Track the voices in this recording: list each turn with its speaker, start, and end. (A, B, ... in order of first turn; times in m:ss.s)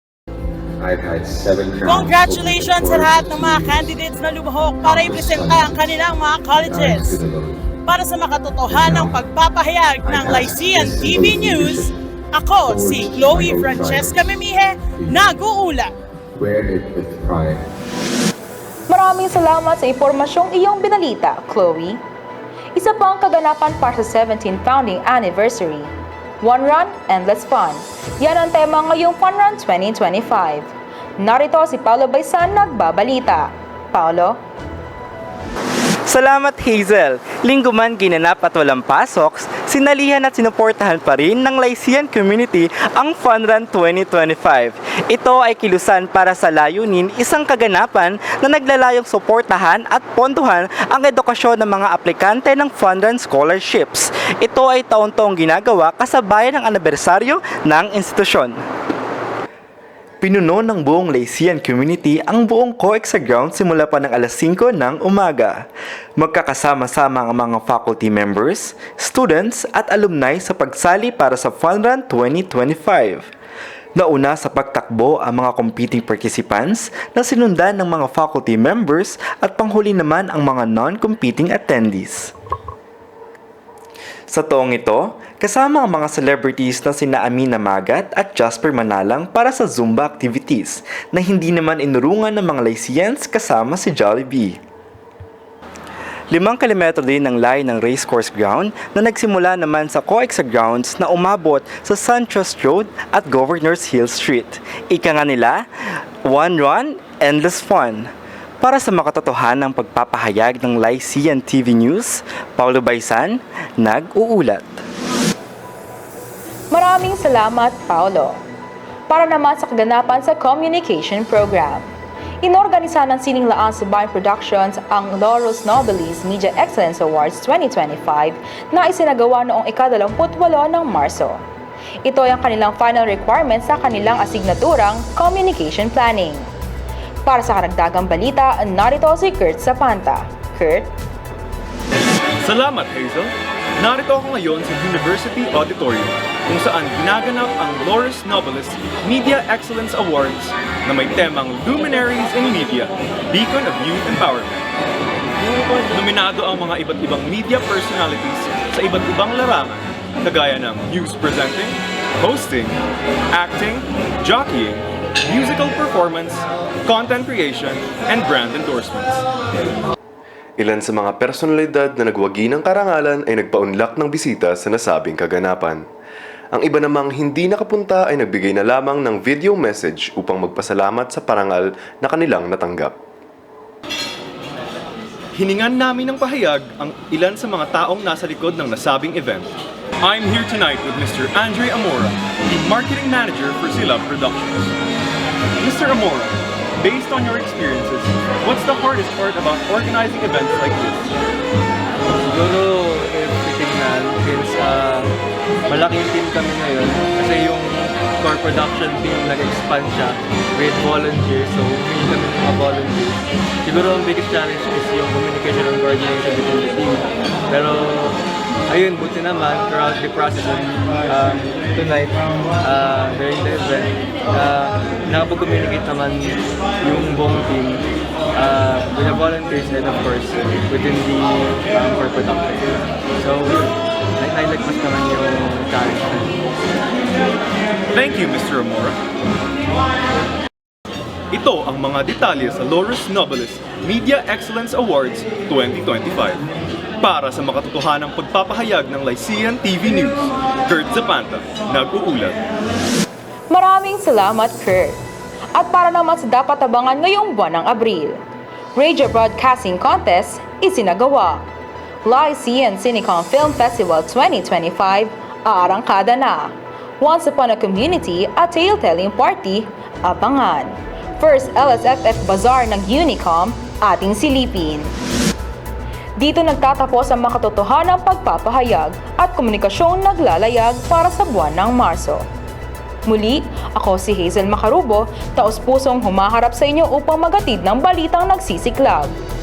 0:00.8-0:04.0 A
0:01.8-0:07.2 B
0:04.8-0:07.6 A
0:07.9-0:15.9 B
0:08.6-0:09.2 A
0:10.0-0:11.9 A
0:12.6-0:14.3 A
0:14.9-0:15.2 A
0:16.4-0:17.6 A
0:18.9-0:22.0 C
0:22.8-0:25.9 C
0:26.4-0:30.7 C
0:31.2-0:34.4 C
0:36.1-0:58.6 D
1:00.2-1:05.6 D
1:06.2-1:13.3 D
1:14.0-1:22.3 D
1:24.3-1:34.6 D
1:36.3-1:45.6 D
1:46.2-1:48.1 D
1:48.6-1:54.8 D
1:56.7-1:58.4 C
1:59.1-2:01.9 C
2:02.4-2:11.4 C
2:12.0-2:16.5 C
2:17.2-2:20.9 C
2:22.4-2:34.7 E
2:35.9-2:42.8 E
2:43.3-2:49.2 E
2:50.6-2:55.8 F
2:56.5-3:02.9 F
3:05.3-3:14.7 E
3:15.6-3:21.0 E
3:22.2-3:25.1 G
3:25.7-3:38.2 G
3:38.7-3:47.8 G
3:48.4-3:56.4 G
3:57.9-3:59.0 E
4:01.3-4:06.4 E
4:07.0-4:12.4 E
4:13.5-4:15.0 C
4:15.6-4:18.2 C
4:18.8-4:21.4 C
4:22.0-4:34.9 C
4:36.2-4:42.2 C
4:43.1-4:49.1 C